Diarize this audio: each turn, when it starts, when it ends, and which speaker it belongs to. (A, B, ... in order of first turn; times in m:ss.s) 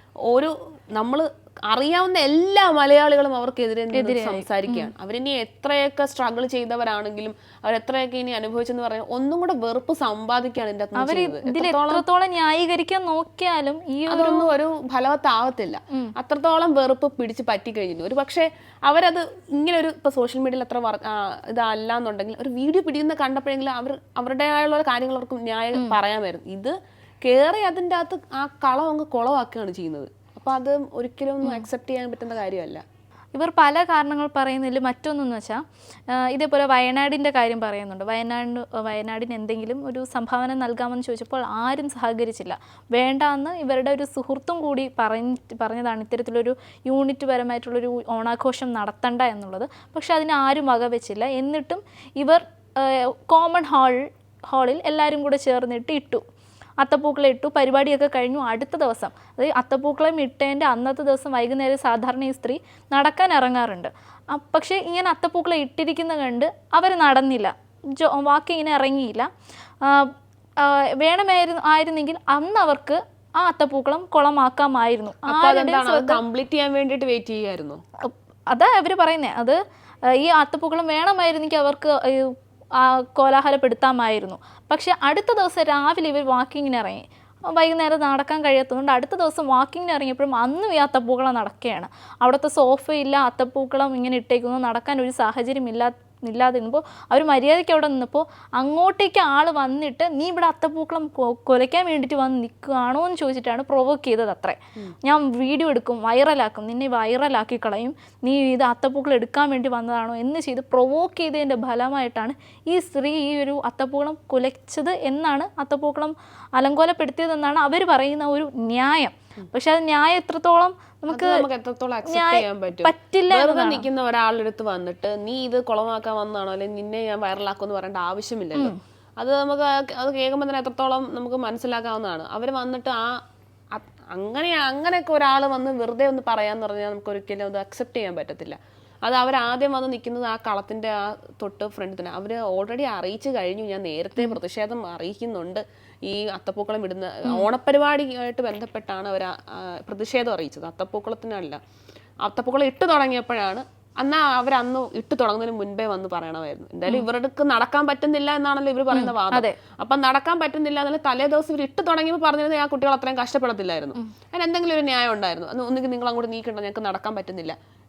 0:00.3-0:12.0 A
0:03.9-0:04.9 B
0:11.0-0:14.5 B
0:14.1-0:32.8 A
0:31.4-0:31.7 B
0:33.3-0:35.6 B
0:36.1-0:56.2 B
0:56.8-1:09.3 B
1:09.8-1:16.2 B
1:15.2-1:17.8 A
1:18.0-2:01.4 B
2:01.1-2:13.1 A
2:02.1-2:03.8 B
2:13.7-2:31.6 A
2:32.2-2:47.6 A
2:38.9-2:39.6 B